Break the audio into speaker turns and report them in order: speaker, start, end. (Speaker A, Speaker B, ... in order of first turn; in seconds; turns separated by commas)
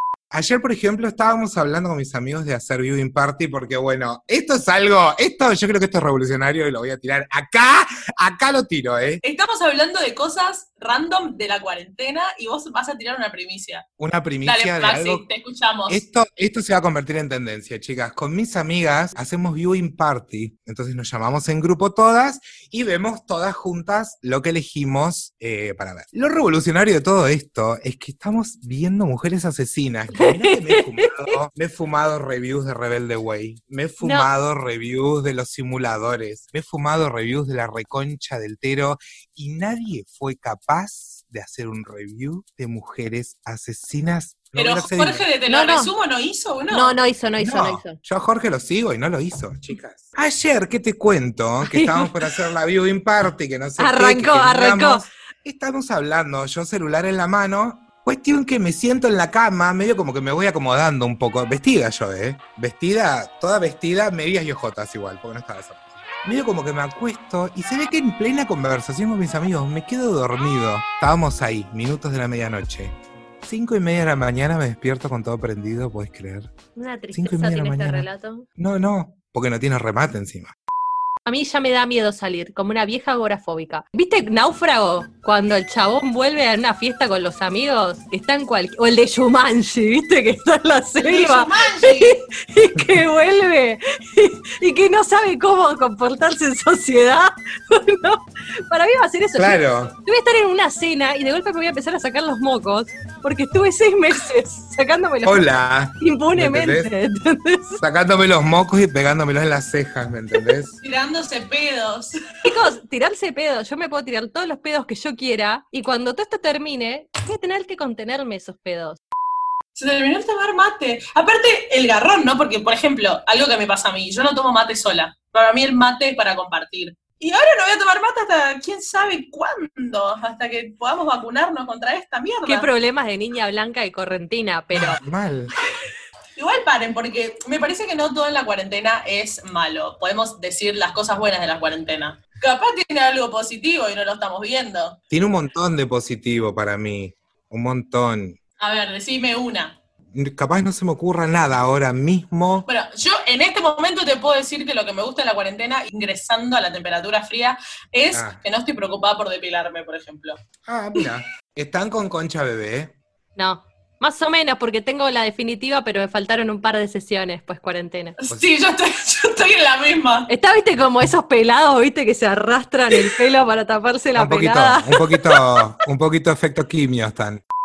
Speaker A: 0.3-9.2, Speaker B: 9.2-13.8, Speaker A: 14.0-15.2, Speaker B: 14.4-16.0, Speaker A: 15.9-45.3, Speaker C: 30.1-31.1, Speaker C: 34.0-34.3, Speaker B: 44.5-47.0, Speaker C: 45.5-45.9, Speaker C: 46.7-48.0, Speaker A: 47.4-76.5, Speaker C: 51.6-52.1, Speaker C: 53.8-55.1, Speaker C: 76.8-78.5, Speaker A: 77.1-80.5, Speaker C: 81.2-105.5, Speaker B: 91.0-92.2, Speaker A: 99.3-99.9, Speaker A: 105.2-106.9, Speaker C: 106.0-107.8, Speaker A: 107.8-110.8, Speaker B: 110.8-112.2, Speaker C: 112.4-119.0, Speaker B: 119.8-132.7, Speaker C: 132.4-135.0, Speaker A: 134.7-135.5, Speaker B: 136.3-145.0, Speaker A: 145.1-148.4, Speaker B: 148.6-149.8, Speaker A: 150.1-152.7, Speaker B: 152.7-160.4, Speaker A: 158.1-158.4, Speaker A: 160.6-163.0, Speaker C: 163.3-168.2, Speaker B: 168.2-170.3, Speaker C: 170.3-175.4, Speaker A: 174.1-177.4